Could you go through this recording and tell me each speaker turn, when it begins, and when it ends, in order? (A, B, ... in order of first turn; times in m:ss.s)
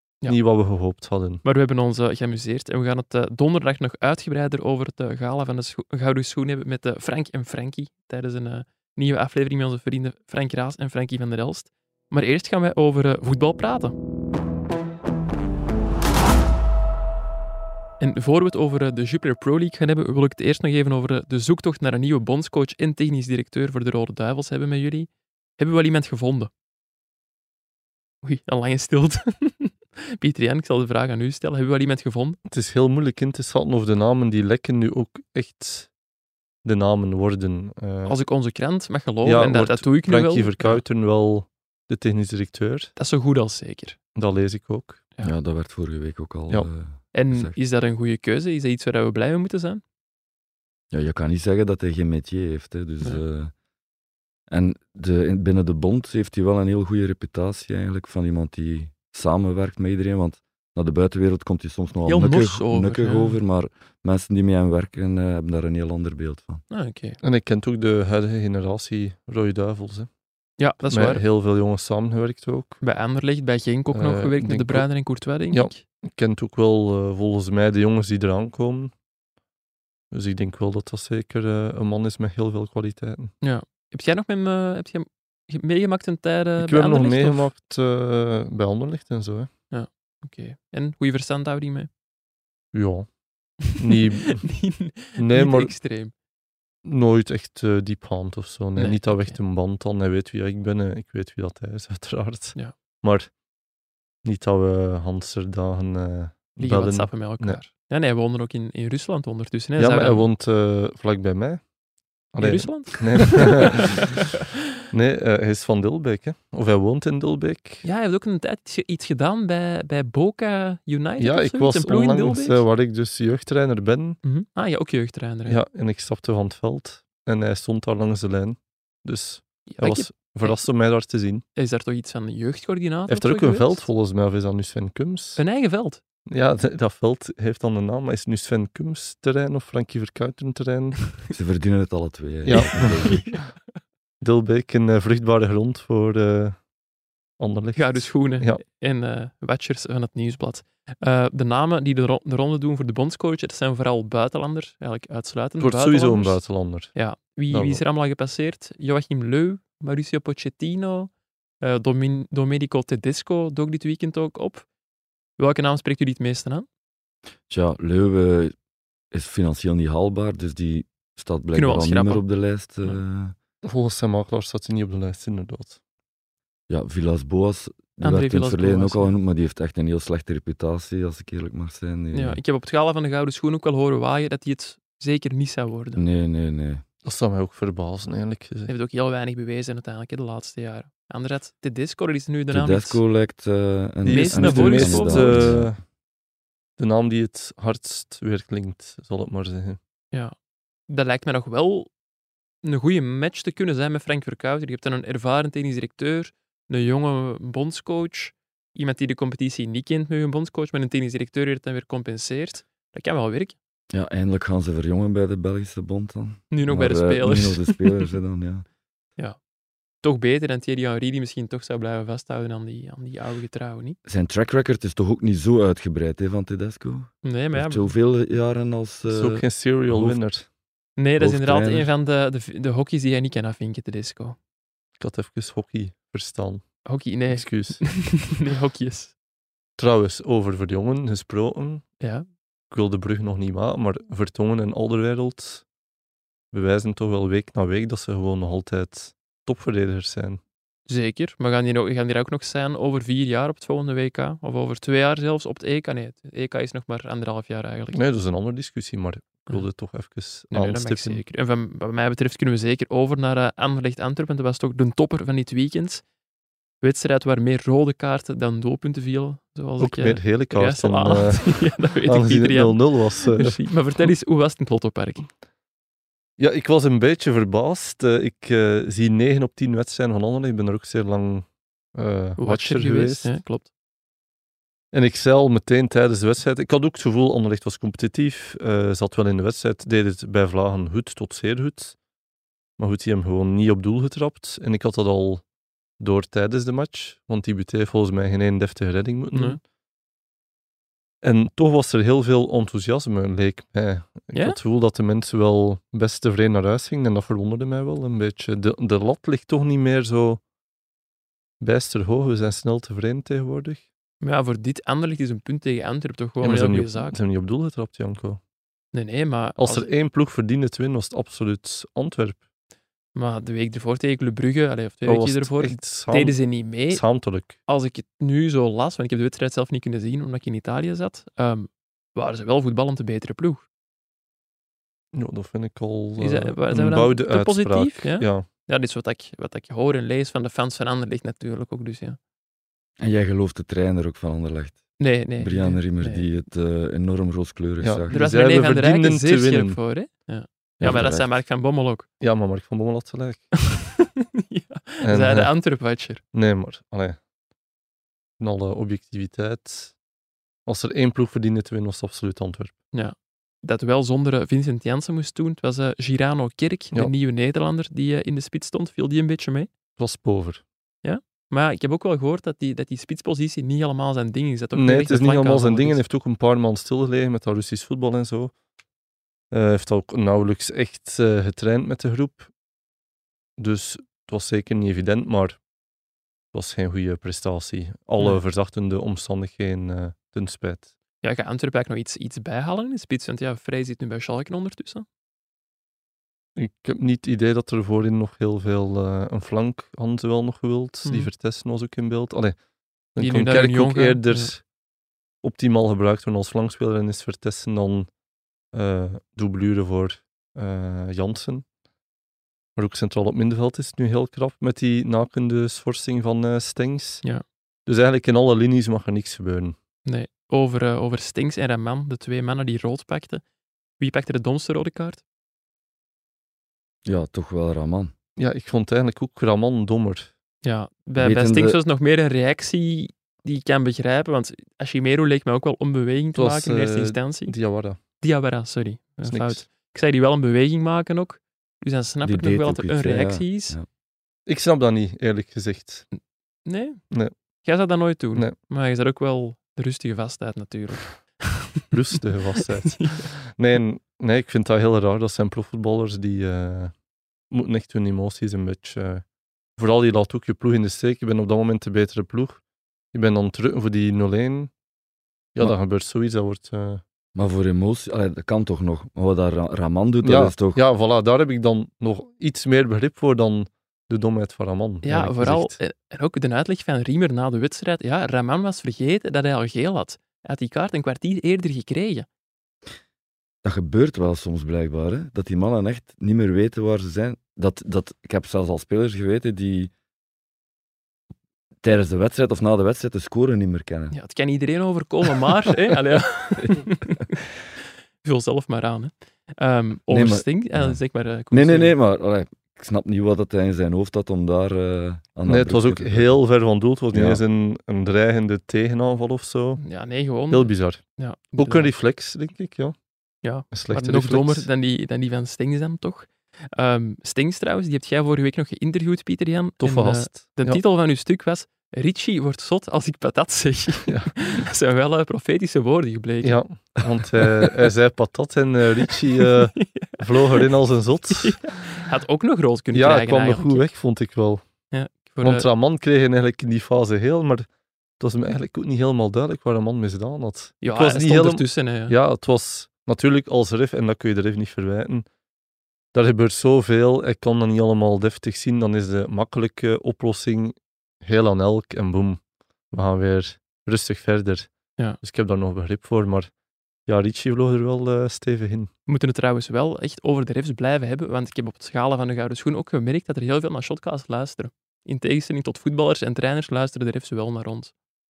0:00.3-0:01.4 A
0:01.4-0:13.9 B
0:18.0-0:26.5 B
0:28.2-0:32.4 B
0:32.5-0:35.9 A
0:36.6-0:38.2 A
0:38.1-0:40.8 B
0:39.2-0:42.9 A
0:43.0-0:44.0 B
0:44.2-0:45.0 A
0:45.2-0:47.6 C
0:47.1-0:49.8 B
0:50.9-0:53.5 C
0:54.5-1:06.6 C
1:02.1-1:03.4 B
1:06.7-1:07.2 B
1:07.2-1:10.1 A
1:10.6-1:11.2 B
1:10.9-1:12.8 A
1:12.8-1:15.8 B
1:13.9-1:14.9 A
1:15.5-1:18.9 A
1:20.1-1:23.3 A
1:23.4-1:27.5 B
1:26.6-1:29.5 A
1:29.7-1:31.9 B
1:32.7-1:33.1 A
1:33.7-1:34.5 A
1:33.7-1:36.1 B
1:35.2-1:35.8 A
1:36.8-1:43.3 A
1:38.8-1:39.4 B
1:44.2-1:47.6 A
1:46.6-1:50.2 B
1:49.8-1:51.7 A
1:52.3-1:54.2 A
1:52.4-1:54.0 B
1:54.9-1:57.8 A
1:57.8-2:02.6 B
2:01.2-2:04.2 A
2:04.2-2:05.6 B
2:05.5-2:11.4 A
2:09.7-2:10.6 B
2:11.5-2:13.8 B
2:13.1-2:15.4 A
2:15.4-2:16.0 B
2:16.3-2:21.1 A
2:21.3-2:23.4 C
2:22.4-2:23.5 A
2:22.5-2:23.4 B
2:24.2-2:26.6 A
2:27.4-2:28.6 A
2:27.8-2:44.7 B
2:35.6-2:37.0 A
2:37.5-2:37.8 A
2:45.4-2:46.7 B
2:47.5-2:48.5 C
2:49.1-2:53.3 C
2:51.5-2:52.2 B
2:53.6-2:55.8 A
2:56.7-3:02.4 C
2:58.0-2:59.1 B
3:02.1-3:06.0 B
3:06.0-3:06.8 C
3:07.0-3:08.7 A
3:08.7-3:13.0 B
3:12.5-3:15.8 C
3:14.0-3:15.8 A
3:14.1-3:15.6 B
3:16.8-3:19.8 A
3:20.9-3:21.9 B
3:22.6-3:33.6 B
3:33.9-3:38.7 C
3:36.5-3:38.0 B
3:40.0-3:44.0 B
3:44.1-3:50.2 C
3:47.2-3:47.9 B
3:49.1-3:50.5 A
3:51.0-3:54.4 B
3:51.2-3:51.9 C
3:55.0-3:56.7 A
3:56.8-3:59.1 B
3:57.3-3:57.9 A
3:59.8-4:01.9 A
4:02.0-4:02.3 B
4:02.7-4:05.6 A
4:06.5-4:10.4 A
4:10.9-4:18.0 B
4:17.9-4:21.2 A
4:20.5-4:26.0 B
4:26.8-4:35.3 B
4:29.8-4:34.0 A
4:36.4-4:43.3 A
4:42.4-4:43.7 B
4:44.9-4:52.0 A
4:52.8-4:55.4 A
4:56.0-4:59.6 A
4:59.3-4:59.6 B
5:01.2-5:10.4 A
5:04.3-5:04.6 B
5:11.6-5:13.8 A
5:14.2-5:17.2 B
5:16.4-5:18.4 A
5:18.9-5:19.9 B
5:19.6-5:22.4 A
5:23.1-5:27.0 B
5:25.0-5:27.6 A
5:27.7-5:33.6 B
5:35.1-5:38.5 A
5:36.2-5:42.2 B
5:43.0-5:48.1 C
5:45.0-5:46.2 B
5:47.8-5:49.8 A
5:48.1-5:52.0 B
5:50.8-5:51.3 C
5:52.2-5:53.6 A
5:53.6-5:56.2 B
5:55.0-5:55.5 A
5:56.3-5:57.2 A
5:58.4-5:59.9 A
6:00.6-6:02.7 A
6:02.9-6:09.7 B
6:10.0-6:10.6 A
6:11.0-6:16.0 B
6:14.8-6:18.5 A
6:19.5-6:22.5 A
6:23.6-6:25.6 A
6:26.5-6:30.9 A
6:31.2-6:35.0 B
6:36.6-6:42.6 A
6:41.0-6:41.3 B
6:43.1-6:44.6 A
6:43.2-6:44.5 B
6:45.4-6:48.1 A
6:48.7-6:51.6 A
6:52.8-6:57.2 A
6:57.9-6:59.8 A
7:00.0-7:03.4 B
7:04.0-7:05.2 B
7:07.0-7:08.1 C
7:08.4-7:10.3 A
7:10.6-7:17.6 B
7:11.2-7:11.8 C
7:16.4-7:18.0 A
7:18.2-7:23.8 B
7:19.2-7:19.6 A
7:22.2-7:23.9 C
7:24.4-7:26.0 A
7:26.6-7:27.0 B
7:27.6-7:31.6 B
7:31.9-7:36.9 A
7:33.0-7:33.3 B
7:37.5-7:39.2 A
7:39.8-7:42.6 A
7:43.1-7:44.7 A
7:45.6-7:47.0 A
7:47.4-7:50.8 C
7:50.2-7:55.8 A
7:55.0-8:02.3 B
8:03.6-8:09.9 C
8:11.8-8:14.2 C
8:14.1-8:17.4 B
8:18.2-8:22.0 B
8:20.1-8:21.0 C
8:21.5-8:26.4 C
8:25.4-8:29.8 A
8:27.1-8:27.4 C
8:29.8-8:31.9 B
8:30.5-8:32.9 A
8:33.4-8:46.6 B
8:33.7-8:34.7 A
8:39.8-8:40.8 A
8:44.0-8:44.5 A
8:46.4-8:51.8 A
8:49.8-8:50.6 B
8:51.4-8:53.9 B
8:52.9-8:54.6 A
8:54.9-8:55.7 B
8:55.4-8:57.7 A
8:58.2-9:05.2 A
9:00.8-9:02.1 B
9:06.1-9:16.5 A
9:17.0-9:18.9 A
9:19.1-9:27.9 B